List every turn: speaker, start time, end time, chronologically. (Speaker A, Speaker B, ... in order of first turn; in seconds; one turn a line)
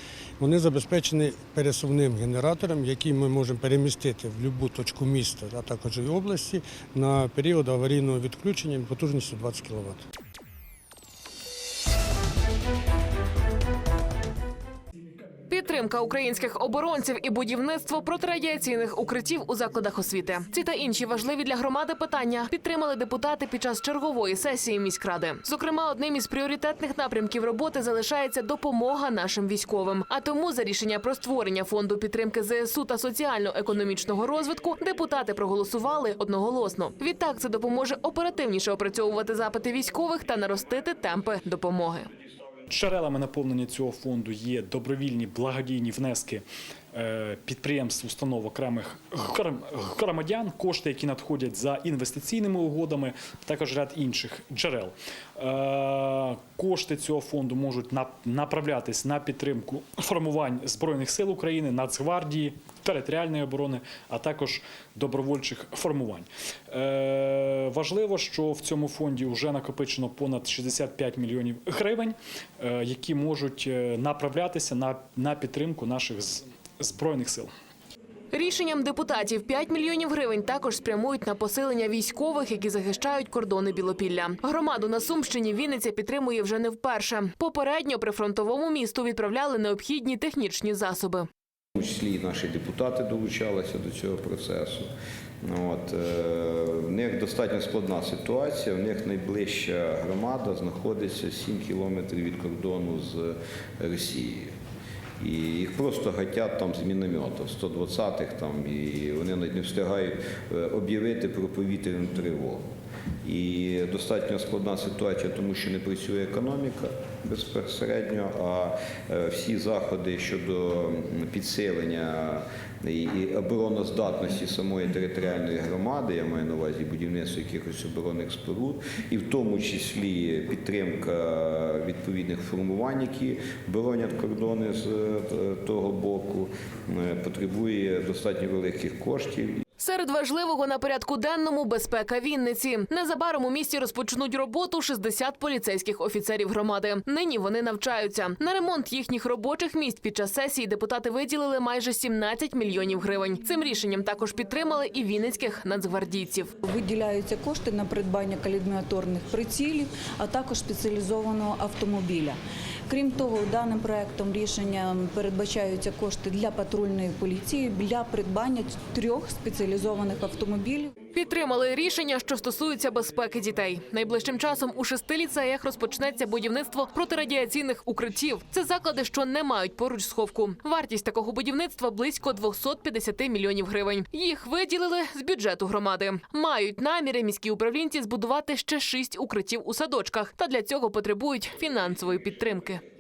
Speaker A: 0.4-10.0
Speaker B: 15.5-42.1
Speaker C: 42.7-77.5
Speaker B: 78.3-91.3
Speaker D: 91.8-94.9
Speaker D: 95.4-104.5
Speaker D: 105.2-112.7
Speaker D: 113.2-139.6
Speaker B: 139.8-156.5
Speaker E: 156.6-170.9
Speaker B: 171.1-192.8